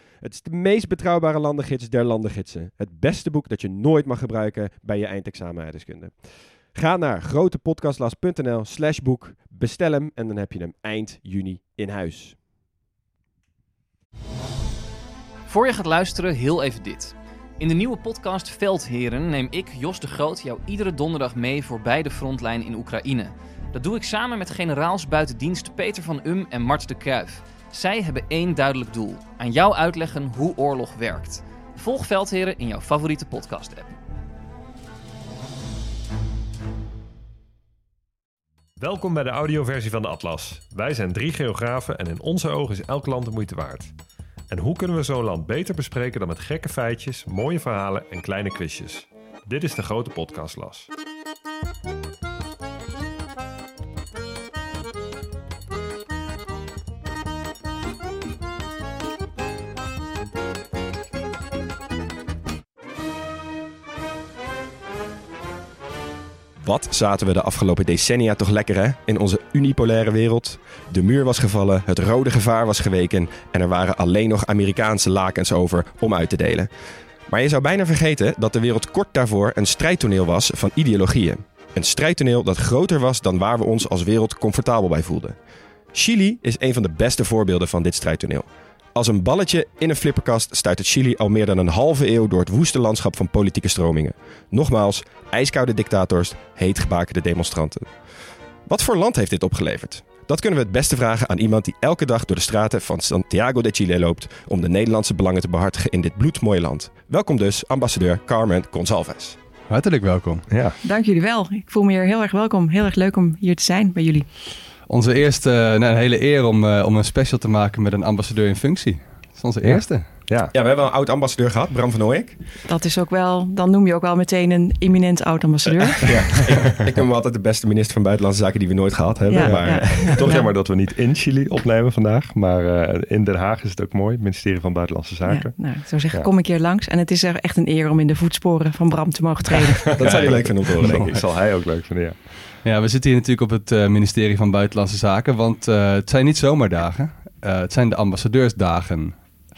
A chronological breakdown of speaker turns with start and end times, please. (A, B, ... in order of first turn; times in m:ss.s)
0:00.2-0:06.2 A
0:06.7-0:12.4 A
0:15.4-0:33.9 B
0:38.8-0:43.9 C
0:44.5-0:50.9 C
1:06.6-1:16.7 A
1:17.3-1:25.4 A
1:25.9-1:37.9 A
1:38.7-1:49.4 A
1:49.7-1:50.4 D
1:50.5-1:50.8 C
1:50.8-1:54.3 E
1:54.9-2:00.1 D
1:59.6-2:00.5 C
2:00.5-2:02.4 A
2:02.6-2:06.1 E
2:06.0-2:10.3 A
2:09.3-2:10.5 E
2:09.4-2:16.3 C
2:15.2-2:19.9 E
2:19.9-2:22.2 C
2:20.0-2:21.2 A
2:20.0-2:21.2 D
2:22.6-2:29.2 D